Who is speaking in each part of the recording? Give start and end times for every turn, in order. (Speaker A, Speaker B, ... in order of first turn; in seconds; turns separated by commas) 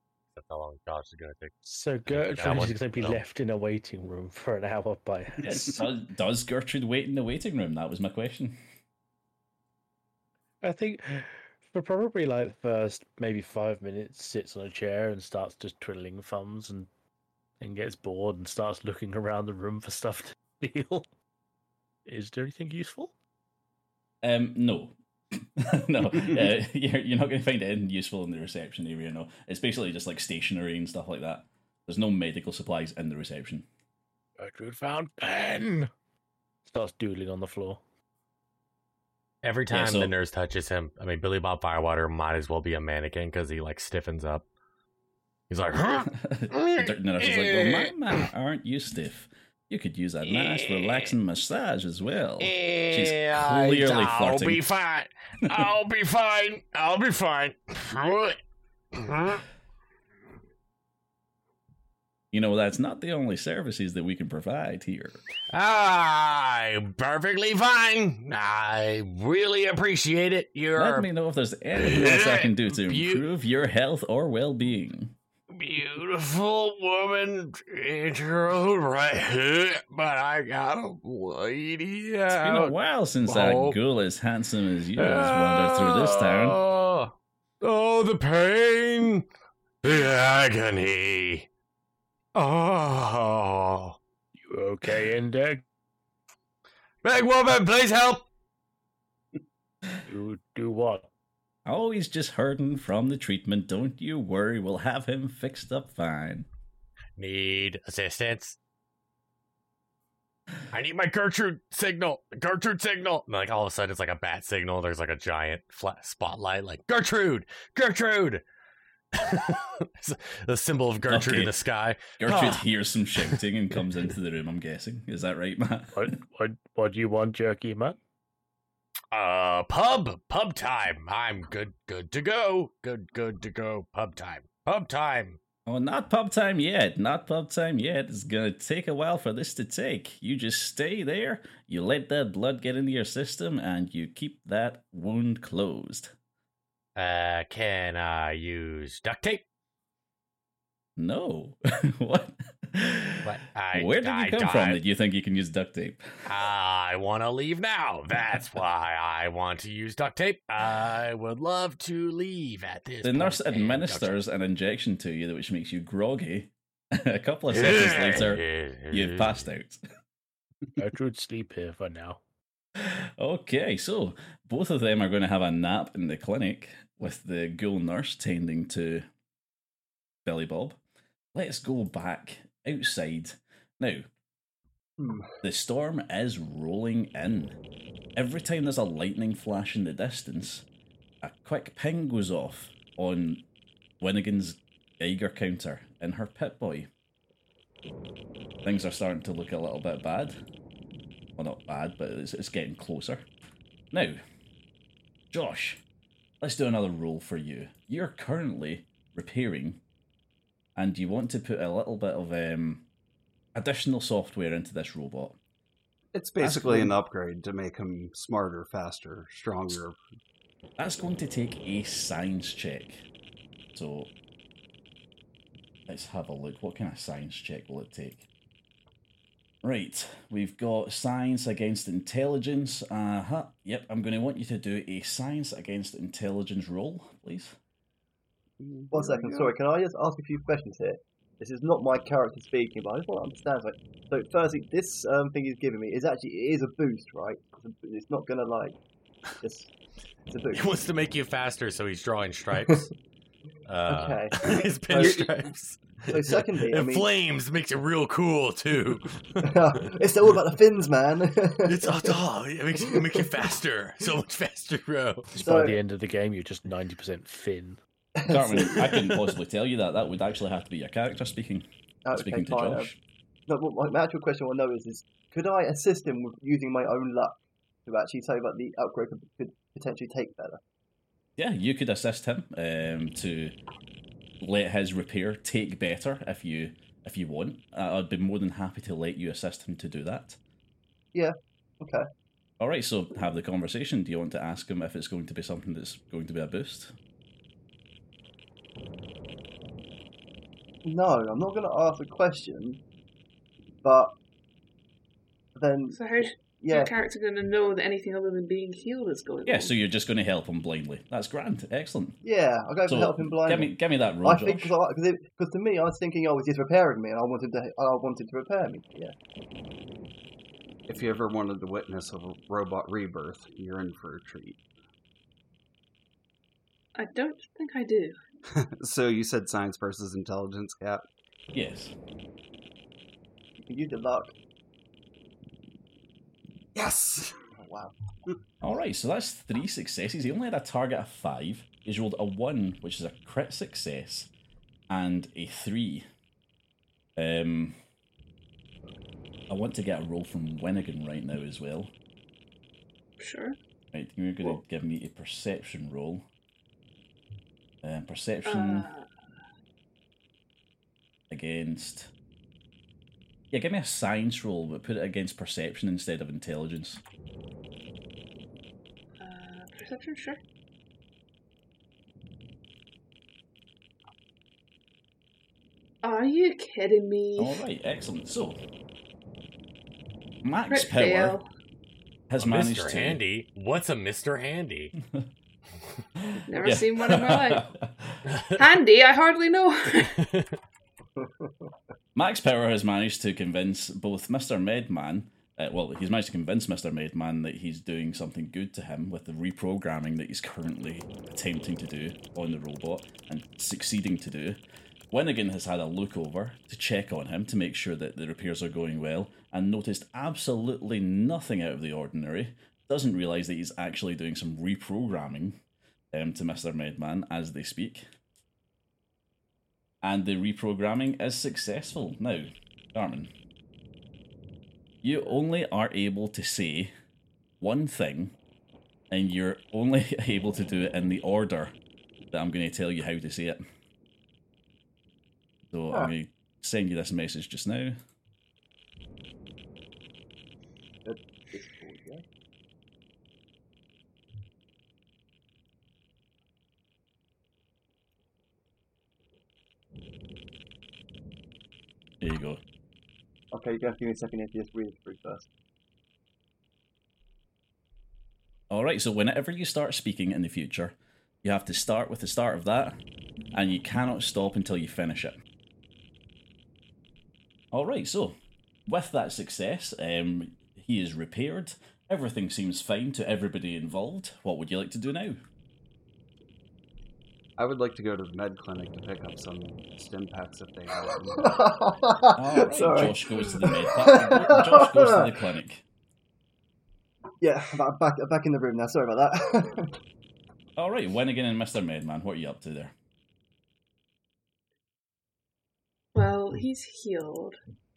Speaker A: 0.3-3.2, Speaker B: 1.6-5.9, Speaker C: 5.4-8.6, Speaker B: 10.6-16.9, Speaker B: 17.6-21.1, Speaker B: 22.1-23.1, Speaker C: 24.2-33.7, Speaker B: 34.4-35.9, Speaker B: 36.7-37.8, Speaker A: 39.4-44.5, Speaker C: 39.7-40.1, Speaker A: 45.5-48.3, Speaker C: 46.2-54.6, Speaker A: 50.2-51.1, Speaker A: 52.4-58.4, Speaker A: 58.9-59.4, Speaker C: 62.3-65.2, Speaker A: 65.5-71.1, Speaker C: 70.8-75.2, Speaker A: 71.8-73.2, Speaker A: 75.5-82.7, Speaker C: 82.3-86.6, Speaker A: 83.2-83.8, Speaker A: 85.0-89.2, Speaker A: 89.8-91.5, Speaker A: 92.3-94.0, Speaker B: 94.4-95.6, Speaker A: 97.0-98.2, Speaker B: 100.1-101.1, Speaker C: 101.7-106.5, Speaker A: 107.2-108.6, Speaker A: 110.7-118.4, Speaker A: 119.1-122.7, Speaker C: 121.1-121.5, Speaker C: 122.2-126.1, Speaker A: 123.2-123.8, Speaker B: 125.9-128.0, Speaker A: 129.1-135.4, Speaker C: 135.7-146.1, Speaker A: 147.0-149.4, Speaker C: 151.0-156.0, Speaker A: 153.2-154.8, Speaker A: 156.3-164.2, Speaker C: 163.0-169.8, Speaker A: 167.5-169.4, Speaker B: 170.8-172.2, Speaker C: 172.8-179.1, Speaker C: 180.2-180.8, Speaker C: 181.3-184.1, Speaker D: 185.0-185.3, Speaker C: 185.4-187.6, Speaker C: 188.2-190.7, Speaker C: 191.2-193.5, Speaker C: 194.0-196.9, Speaker C: 198.6-200.4, Speaker C: 201.4-203.3, Speaker C: 203.9-204.2, Speaker C: 205.3-205.8, Speaker C: 206.4-209.8, Speaker C: 210.8-212.9, Speaker C: 213.6-215.4, Speaker E: 216.2-220.0, Speaker C: 216.4-216.9, Speaker C: 220.8-223.1, Speaker C: 223.8-224.1, Speaker C: 225.9-228.3, Speaker C: 229.6-237.6, Speaker E: 238.6-239.5, Speaker D: 238.9-248.8, Speaker D: 249.4-249.7, Speaker D: 250.3-250.8, Speaker A: 250.5-252.9, Speaker A: 253.7-259.9, Speaker D: 253.9-255.3, Speaker E: 254.9-255.3, Speaker D: 256.1-257.1, Speaker D: 259.4-262.2, Speaker A: 261.6-265.3, Speaker D: 262.9-263.2, Speaker B: 265.4-267.8, Speaker D: 265.4-265.8, Speaker D: 268.2-269.1, Speaker C: 268.3-273.0, Speaker D: 272.1-272.9, Speaker D: 273.5-280.6, Speaker C: 281.4-283.6, Speaker C: 284.4-290.4, Speaker D: 291.1-292.1, Speaker C: 292.6-296.9, Speaker D: 300.9-302.8, Speaker D: 303.8-304.1, Speaker D: 305.6-306.0, Speaker F: 305.9-309.7, Speaker D: 306.6-306.9, Speaker C: 309.5-312.2, Speaker D: 312.2-319.1, Speaker C: 312.9-314.7, Speaker E: 320.9-324.6, Speaker F: 327.0-328.2, Speaker E: 328.5-331.1, Speaker C: 331.5-331.9, Speaker D: 333.6-334.3, Speaker E: 336.8-337.4, Speaker D: 337.6-337.9, Speaker C: 338.6-344.3, Speaker C: 344.9-346.1, Speaker C: 347.2-347.8, Speaker C: 349.5-351.9, Speaker F: 353.2-353.6, Speaker C: 353.9-356.3, Speaker C: 357.8-358.9, Speaker F: 358.4-359.1, Speaker C: 361.3-362.1, Speaker C: 363.5-367.0, Speaker F: 369.2-370.4, Speaker F: 376.0-377.6, Speaker C: 377.4-378.6, Speaker C: 380.4-381.4, Speaker F: 380.7-381.4, Speaker C: 382.3-383.2, Speaker A: 382.4-384.9, Speaker C: 386.2-388.3, Speaker F: 386.5-387.7, Speaker F: 388.6-390.2, Speaker A: 390.2-390.5, Speaker D: 391.2-391.7, Speaker C: 392.1-404.6, Speaker C: 405.1-415.6, Speaker C: 416.1-418.1, Speaker C: 420.0-423.3, Speaker C: 425.0-426.9, Speaker C: 427.6-428.4, Speaker C: 429.1-431.8, Speaker C: 432.3-433.6, Speaker C: 435.7-438.0, Speaker D: 441.1-442.2, Speaker C: 452.2-452.6, Speaker D: 453.5-455.5, Speaker C: 458.7-463.0, Speaker C: 463.5-465.4, Speaker C: 467.7-468.4, Speaker C: 468.9-475.4, Speaker E: 477.6-481.9, Speaker D: 481.3-485.3, Speaker C: 482.3-485.9, Speaker D: 487.4-490.0, Speaker C: 490.8-492.9, Speaker F: 496.1-497.6